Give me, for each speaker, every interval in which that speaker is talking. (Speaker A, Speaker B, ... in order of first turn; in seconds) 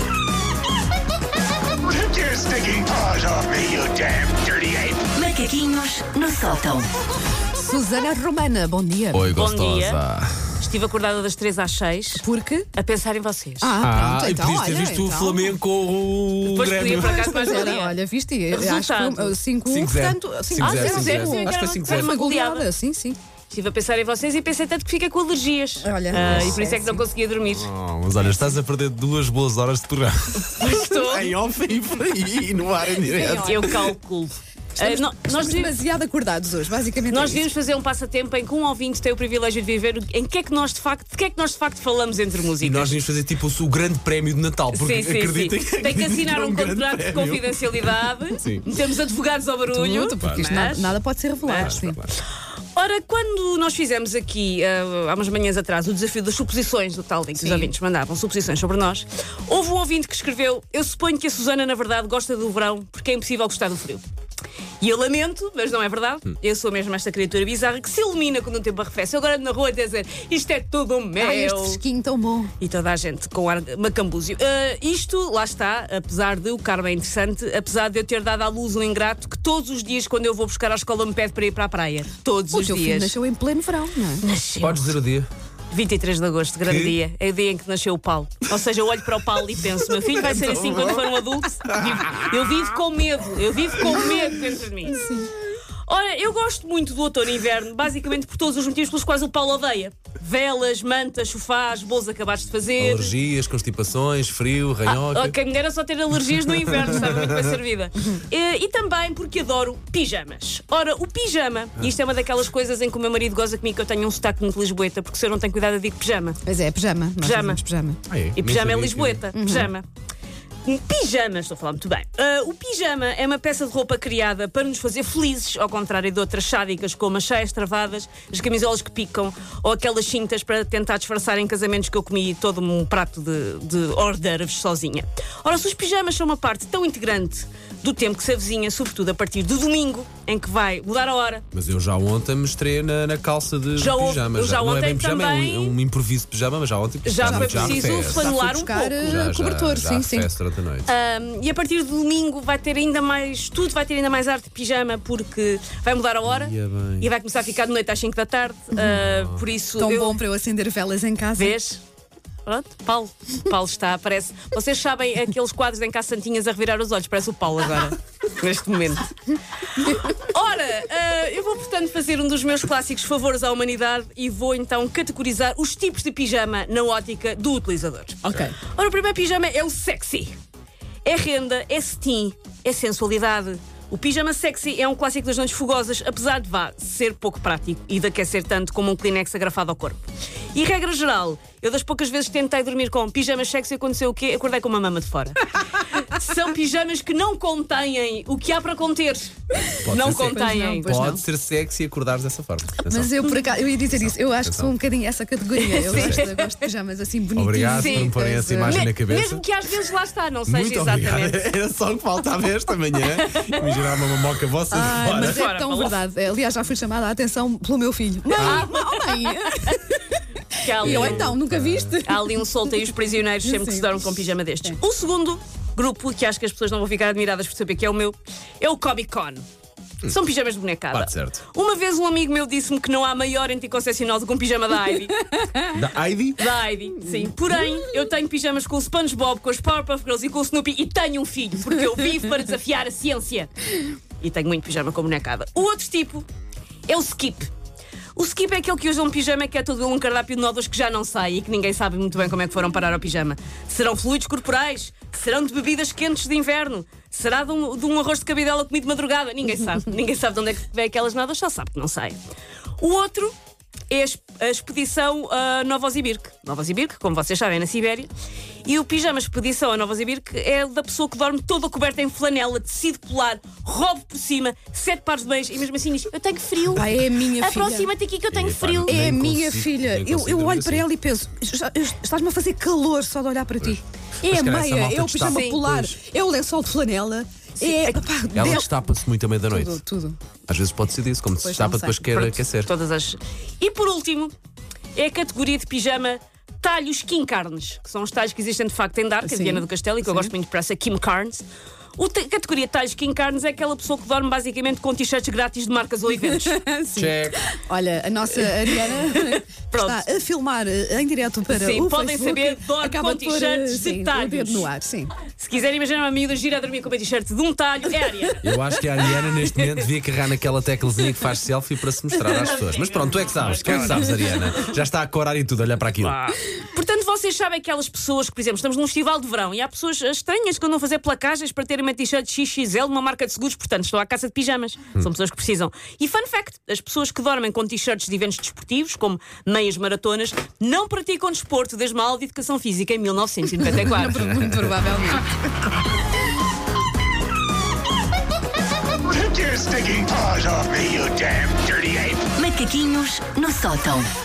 Speaker A: 1.9-5.1, 349.1-352.3
Speaker B: 5.1-6.9, 352.3-354.1
Speaker C: 7.5-9.4, 12.2-12.7, 13.6-15.5, 17.0-23.2, 25.8-27.0, 33.1-33.5, 34.8-37.5, 49.7-52.0, 57.4-57.7, 71.2-72.5, 82.5-84.2, 95.0-95.3, 116.4-118.0, 119.3-119.7, 147.2-150.3, 159.8-161.5, 178.3-178.5, 200.3-201.2, 202.8-208.8, 214.7-222.9, 223.4-224.1, 276.7-277.9, 278.8-288.8, 289.5-290.2, 291.4-292.0, 299.2-300.3, 306.1-315.1, 343.8-345.2
Speaker D: 9.1-10.7, 13.8-17.6, 19.6-22.2, 26.1-26.6, 27.5-33.9, 42.6-48.7, 50.2-50.8, 51.5-52.1, 84.6-85.3, 86.7-87.0, 90.0-91.1, 91.7-92.6, 102.8-105.3, 106.3-107.6, 118.1-119.2, 141.5-148.3, 149.0-150.9, 156.2-157.1, 158.8-159.4, 199.5-204.7, 205.8-206.2, 207.3-209.4, 210.5-215.5, 218.4-218.7, 220.8-222.0, 230.9-231.4, 235.7-236.5, 278.3-280.9, 283.6-285.9, 288.3-289.8, 290.5-292.7, 306.9-307.4, 318.4-326.2
Speaker E: 9.3-10.0, 10.6-12.2, 12.7-13.8, 16.5-17.9, 18.5-19.4, 20.6-22.7, 23.5-27.7, 30.6-31.4, 33.1-35.8, 37.1-42.9, 44.7-51.8, 52.7-64.0, 64.8-71.8, 72.6-83.1, 84.2-84.9, 85.7-95.3, 95.8-103.1, 104.8-116.4, 117.2-117.6, 118.3-119.8, 120.6-141.4, 143.8-145.8, 147.0-149.1, 150.8-160.2, 161.4-161.8, 162.4-180.3, 181.0-201.2, 205.6-206.7, 207.7-208.1, 208.6-211.4, 213.0-213.9, 215.1-216.0, 218.3-219.9, 220.6-221.4, 222.0-229.4, 230.1-235.5, 236.4-246.2, 246.9-247.5, 248.2-262.2, 262.8-263.3, 263.9-268.1, 268.6-279.1, 285.3-285.6, 287.6-288.1, 292.1-294.3, 294.9-301.4, 302.0-306.6, 308.6-310.0, 311.5-314.7, 315.4-318.4, 319.2-319.7, 322.2-324.4, 326.0-344.3